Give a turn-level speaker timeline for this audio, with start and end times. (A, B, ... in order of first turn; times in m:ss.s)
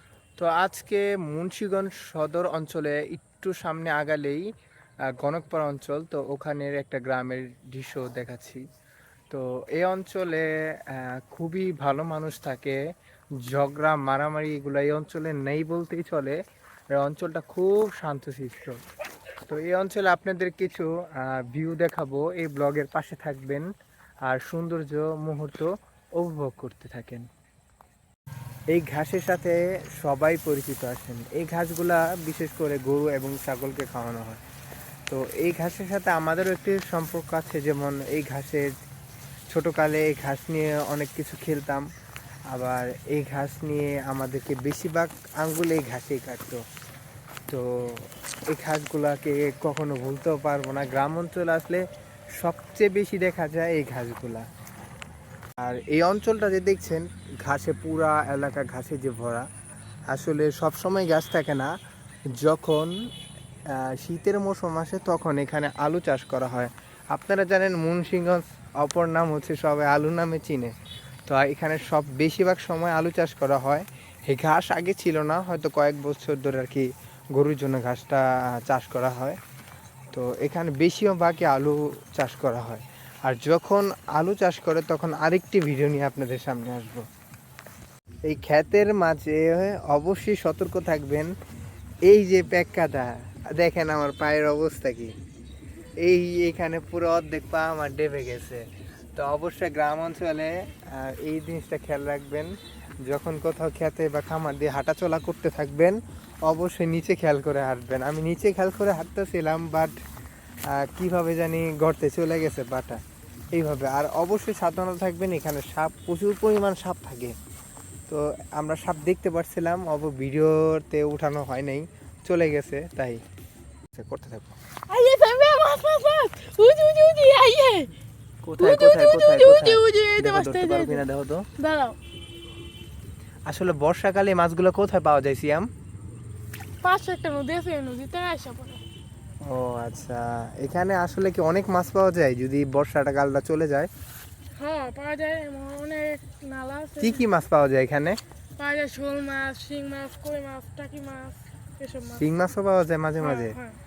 0:00.4-0:04.4 A
0:05.1-0:08.6 A
0:09.3-0:12.8 A
0:13.4-0:16.4 A
0:16.9-0:18.8 A
0:19.5-0:23.7 A
0:24.2-0:27.2 A
0:28.7-0:34.4 A
0:35.1-0:38.7 A
0:39.5-0:41.9 A
0:42.5-0:46.6 A
0:47.5-0:51.8 A
0:52.4-0:54.4 A
0:55.6-0:59.5 A
1:00.1-1:01.7 A
1:02.3-1:02.9 A
1:03.7-1:10.7 A
1:11.2-1:19.4 A
1:20.1-1:27.0 A
1:28.2-1:31.3 A
1:32.0-1:35.1 A
1:36.0-1:38.6 A
1:39.2-1:49.9 A
1:50.7-1:53.0 A
1:53.5-1:57.3 A
1:58.1-2:03.2 A
2:03.9-2:04.6 A
2:04.9-2:07.9 B
2:08.4-2:11.5 A
2:08.6-2:11.1 B
2:11.6-2:12.0 B
2:13.5-2:15.7 A
2:16.8-2:18.8 B
2:19.4-2:23.9 A
2:24.6-2:27.2 B
2:27.0-2:28.2 A
2:28.6-2:32.3 B
2:32.2-2:33.5 A
2:33.2-2:33.8 B